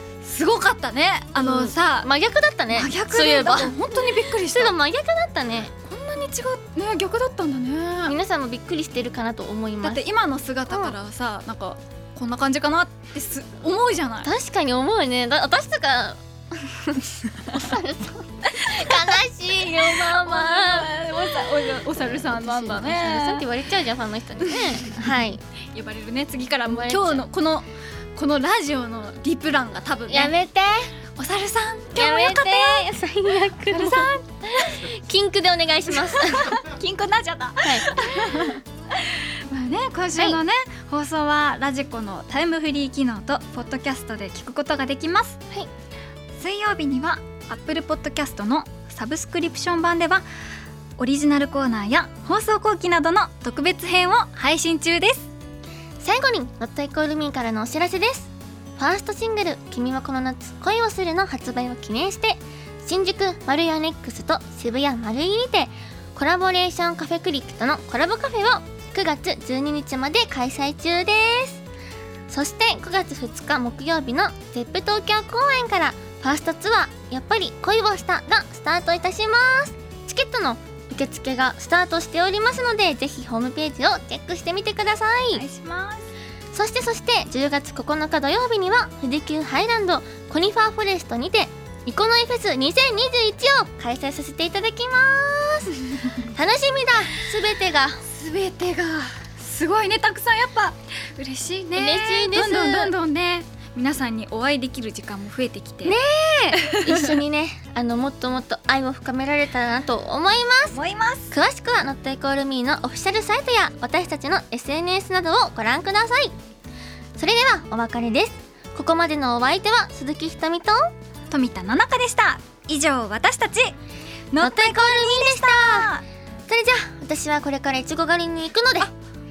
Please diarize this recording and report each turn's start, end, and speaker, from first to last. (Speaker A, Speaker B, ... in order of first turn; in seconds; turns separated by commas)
Speaker A: 0.2-2.1, Speaker B: 1.4-5.7, Speaker A: 2.7-4.8, Speaker A: 5.8-8.2, Speaker B: 8.1-10.0, Speaker A: 9.8-14.3, Speaker B: 10.7-10.9, Speaker B: 14.2-25.4, Speaker A: 18.7-23.4, Speaker A: 24.5-25.1, Speaker A: 25.7-30.3, Speaker B: 26.7-27.2, Speaker B: 30.1-30.9, Speaker A: 31.2-32.9, Speaker B: 32.0-36.6, Speaker A: 33.7-34.8, Speaker A: 36.0-45.4, Speaker B: 37.6-38.0, Speaker A: 46.4-50.2, Speaker A: 51.0-55.3, Speaker B: 56.0-71.6, Speaker B: 72.3-85.4, Speaker A: 85.3-86.1, Speaker B: 86.5-95.8, Speaker B: 96.3-98.0, Speaker A: 98.0-106.0, Speaker B: 101.8-102.9, Speaker B: 105.8-110.8, Speaker A: 106.6-107.2, Speaker A: 110.7-111.3, Speaker B: 111.3-116.3, Speaker B: 117.2-120.9, Speaker A: 121.3-123.8, Speaker A: 124.3-126.0, Speaker B: 124.4-125.9, Speaker B: 126.5-128.9